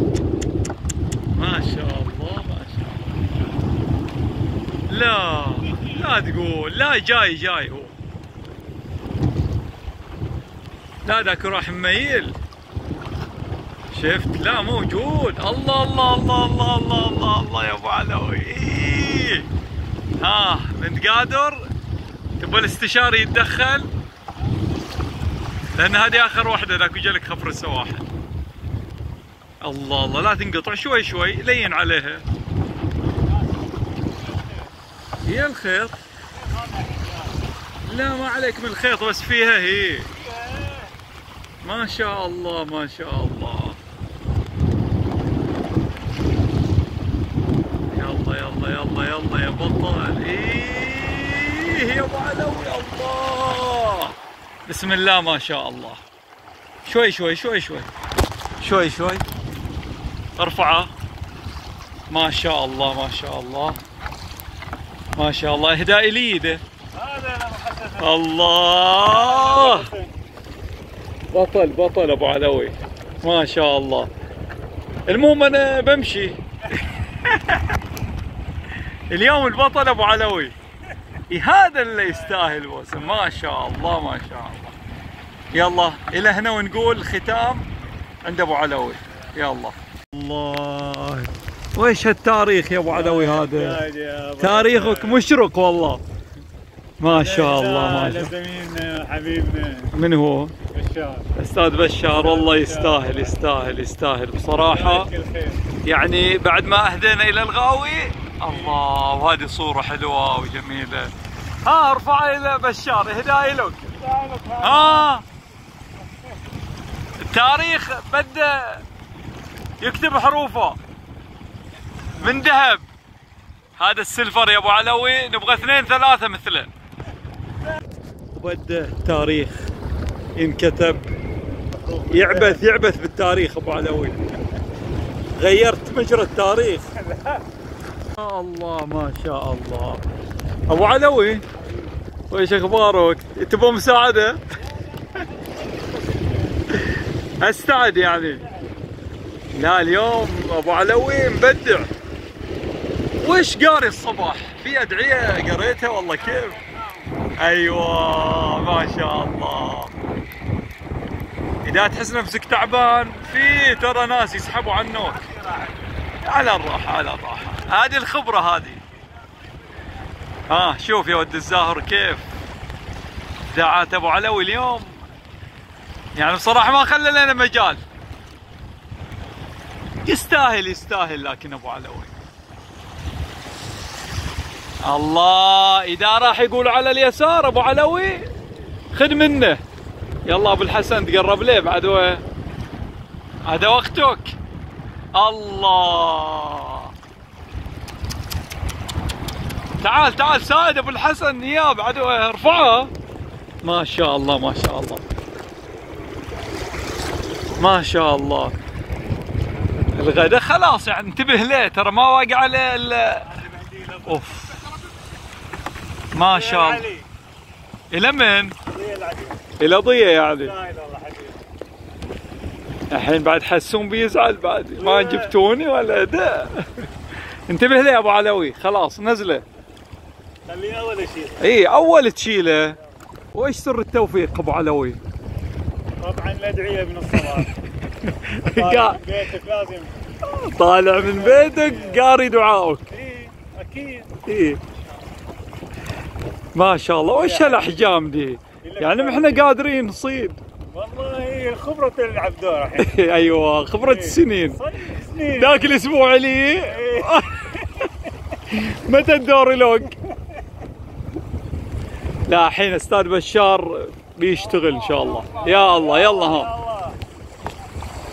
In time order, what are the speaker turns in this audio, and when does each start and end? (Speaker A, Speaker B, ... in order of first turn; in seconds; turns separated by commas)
Speaker A: 1.4-2.9, Speaker A: 4.9-7.9, Speaker A: 11.1-12.4, Speaker A: 13.9-19.5, Speaker A: 20.2-21.7, Speaker A: 22.4-23.9, Speaker A: 25.8-28.1, Speaker A: 29.6-32.2, Speaker B: 33.2-34.7, Speaker A: 35.2-36.0, Speaker B: 36.3-37.5, Speaker A: 37.9-40.1, Speaker B: 40.1-40.9, Speaker A: 41.6-43.8, Speaker A: 47.9-54.1, Speaker A: 54.7-56.0, Speaker A: 56.9-57.9, Speaker A: 58.6-59.2, Speaker A: 60.4-60.9, Speaker A: 62.1-63.8, Speaker A: 65.2-66.6, Speaker B: 66.9-68.2, Speaker A: 68.0-69.9, Speaker B: 69.0-70.1, Speaker A: 71.3-74.1, Speaker A: 75.1-76.4, Speaker A: 77.2-77.6, Speaker A: 79.1-80.5, Speaker A: 81.3-84.8, Speaker B: 82.1-83.3, Speaker A: 85.5-87.7, Speaker A: 88.2-93.8, Speaker B: 92.9-95.2, Speaker A: 94.4-96.0, Speaker A: 97.0-98.3, Speaker B: 97.1-99.9, Speaker A: 99.9-100.5, Speaker B: 100.7-101.3, Speaker A: 101.4-105.1, Speaker B: 102.1-103.4, Speaker B: 104.7-105.6, Speaker A: 105.8-111.1, Speaker B: 108.5-108.8, Speaker A: 111.6-113.9, Speaker B: 114.0-115.1, Speaker A: 114.6-115.2, Speaker A: 117.2-118.8, Speaker A: 119.8-120.8, Speaker A: 122.2-122.8, Speaker A: 123.8-126.7, Speaker A: 128.3-129.7, Speaker A: 130.4-131.1, Speaker B: 131.7-132.6, Speaker A: 132.1-134.2, Speaker A: 135.4-136.9, Speaker B: 137.0-137.4, Speaker A: 138.2-140.0, Speaker A: 140.7-141.4, Speaker A: 142.3-144.4, Speaker B: 144.6-146.7, Speaker A: 146.7-148.4, Speaker B: 148.3-148.7, Speaker A: 149.5-151.9, Speaker A: 153.2-156.6, Speaker B: 156.2-157.3, Speaker A: 157.4-159.9, Speaker A: 161.6-165.2, Speaker B: 163.2-163.9, Speaker B: 164.7-165.9, Speaker A: 166.2-168.8, Speaker B: 169.0-170.1, Speaker A: 170.5-172.3, Speaker A: 173.5-175.0, Speaker A: 176.2-177.8, Speaker A: 180.1-182.1, Speaker A: 184.8-188.3, Speaker A: 188.9-189.6, Speaker A: 190.3-192.2, Speaker A: 193.5-194.3, Speaker A: 195.1-196.9, Speaker A: 199.8-202.9, Speaker A: 203.6-205.0, Speaker A: 207.6-208.5, Speaker A: 209.9-213.3, Speaker B: 213.2-214.7, Speaker A: 214.1-214.6, Speaker A: 216.1-216.9, Speaker B: 216.2-217.1, Speaker A: 217.9-218.6, Speaker B: 218.7-219.4, Speaker A: 219.6-220.5, Speaker B: 220.4-221.4, Speaker A: 222.9-226.9, Speaker B: 224.8-225.3, Speaker A: 227.5-229.4, Speaker B: 230.5-231.5, Speaker A: 231.4-232.8, Speaker A: 233.3-235.0, Speaker B: 236.0-237.5, Speaker A: 238.1-239.0, Speaker B: 238.4-240.0, Speaker A: 240.3-242.9, Speaker B: 240.9-242.0, Speaker B: 242.9-244.1, Speaker A: 244.3-244.6, Speaker B: 244.8-245.1, Speaker A: 246.5-250.4, Speaker B: 247.2-247.7, Speaker B: 248.6-249.6, Speaker B: 250.7-253.1, Speaker A: 252.8-254.6, Speaker B: 253.8-255.8, Speaker A: 255.4-257.5, Speaker B: 256.5-257.7, Speaker A: 258.5-260.0, Speaker A: 262.3-266.5, Speaker B: 264.3-267.0